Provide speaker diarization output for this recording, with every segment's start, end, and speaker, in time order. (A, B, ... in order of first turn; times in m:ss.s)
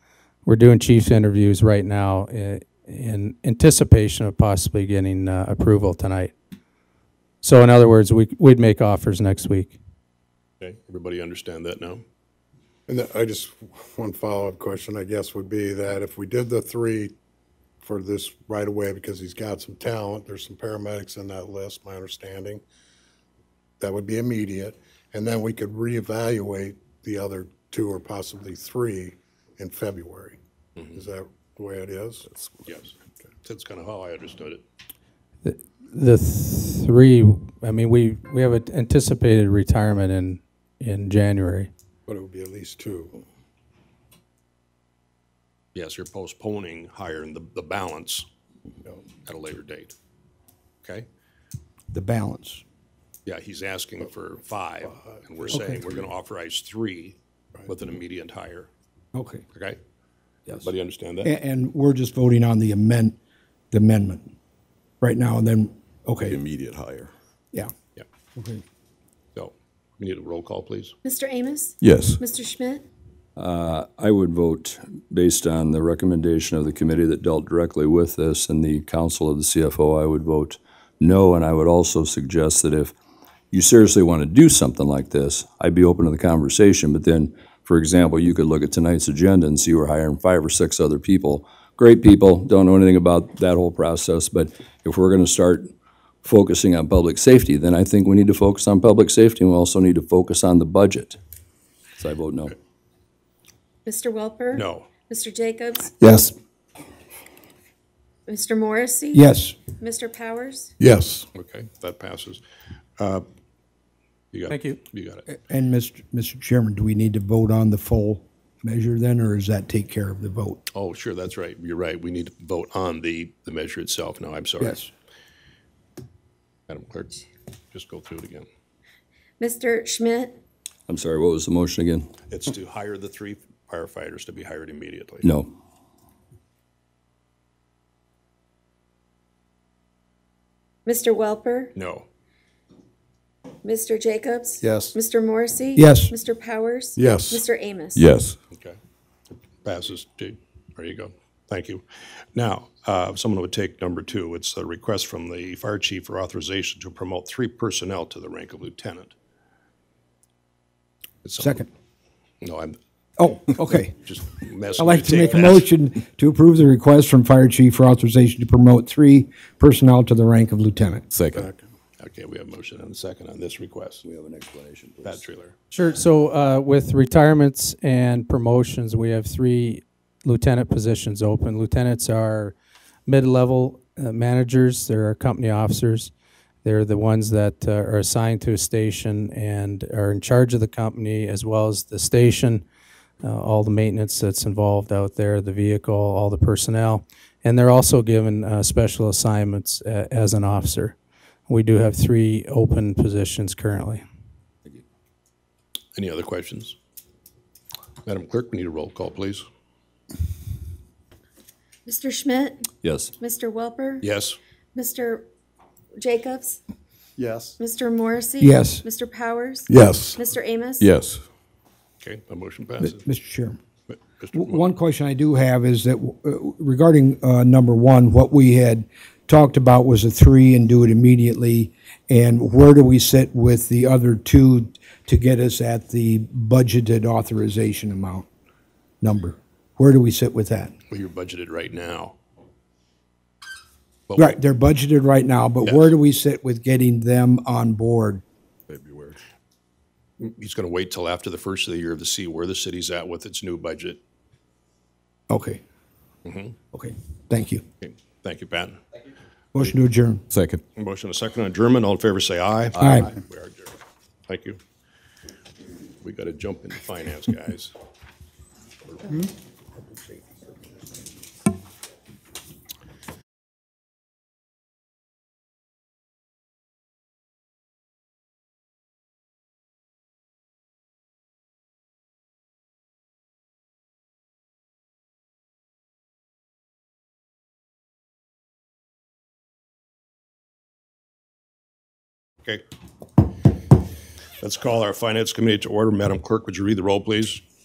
0:00.4-0:06.3 A
0:07.4-0:09.8 A
0:10.6-0:12.0 B
0:12.9-0:17.1 C
0:17.8-0:22.6 C
0:23.8-0:30.4 C
0:30.9-0:32.2 C
0:32.3-0:32.6 D
0:33.4-0:34.6 B
0:35.4-0:41.7 A
0:42.1-0:43.2 C
0:45.7-0:48.2 B
0:49.2-0:49.9 B
0:51.9-0:52.6 E
0:53.2-0:57.2 B
0:55.4-0:55.7 C
0:55.5-0:55.8 E
0:57.7-0:58.7 B
0:59.1-0:59.4 E
0:59.5-0:59.8 B
1:00.6-1:01.3 B
1:01.2-1:03.1 E
1:03.7-1:04.3 E
1:05.0-1:06.4 E
1:06.2-1:07.1 D
1:08.4-1:08.6 E
1:09.3-1:10.9 B
1:11.0-1:12.8 F
1:11.8-1:12.2 D
1:13.4-1:22.9 G
1:23.5-1:35.7 G
1:36.2-1:41.2 G
1:42.0-1:42.5 G
1:43.8-1:46.2 F
1:44.5-1:44.9 B
1:48.3-1:50.7 F
1:49.1-1:49.6 E
1:50.9-1:51.2 D
1:51.3-1:52.4 B
1:53.0-1:53.2 B
1:54.3-1:55.2 B
1:54.5-1:54.8 A
1:55.3-2:00.6 E
2:00.7-2:04.9 B
2:04.6-2:04.9 E
2:06.7-2:08.5 B
2:09.4-2:10.4 F
2:10.9-2:12.1 G
2:12.3-2:15.3 B
2:15.2-2:15.5 G
2:20.8-2:21.7 F
2:21.7-2:22.0 B
2:23.6-2:28.1 F
2:25.8-2:26.1 E
2:27.0-2:28.4 D
2:29.6-2:31.8 B
2:32.3-2:39.1 B
2:41.2-2:41.6 B
2:41.4-2:41.7 E
2:42.4-2:42.8 B
2:43.2-2:44.0 E
2:43.7-2:45.7 B
2:44.7-2:51.0 E
2:51.1-2:51.5 D
2:52.0-2:54.0 B
2:54.0-2:55.2 G
2:55.0-2:55.5 B
2:55.7-3:02.6 A
3:03.1-3:06.1 A
3:06.6-3:12.6 A
3:13.2-3:21.0 A
3:21.5-3:24.0 A
3:26.0-3:26.7 B
3:28.0-3:29.4 B
3:31.8-3:34.0 F
3:32.8-3:33.1 G
3:34.0-3:34.4 B
3:34.7-3:35.2 F
3:36.0-3:36.6 F
3:37.6-3:40.9 F
3:38.4-3:38.8 E
3:39.7-3:40.2 D
3:40.8-3:41.2 D
3:42.0-3:43.0 B
3:42.8-3:43.6 E
3:43.9-3:44.6 B
3:44.3-3:58.3 E
3:59.0-4:00.7 E
4:00.9-4:02.2 B
4:04.1-4:04.3 B
4:04.2-4:08.2 E
4:05.6-4:05.9 B
4:08.7-4:09.2 D
4:10.2-4:14.0 B
4:15.3-4:15.6 E
4:16.2-4:16.5 B
4:16.7-4:17.6 E
4:17.8-4:18.8 B
4:19.5-4:20.2 E
4:20.3-4:20.6 D
4:20.8-4:23.7 B
4:22.8-4:23.1 E
4:24.3-4:24.6 B
4:26.0-4:27.7 B
4:28.9-4:29.3 B
4:54.4-4:57.4 B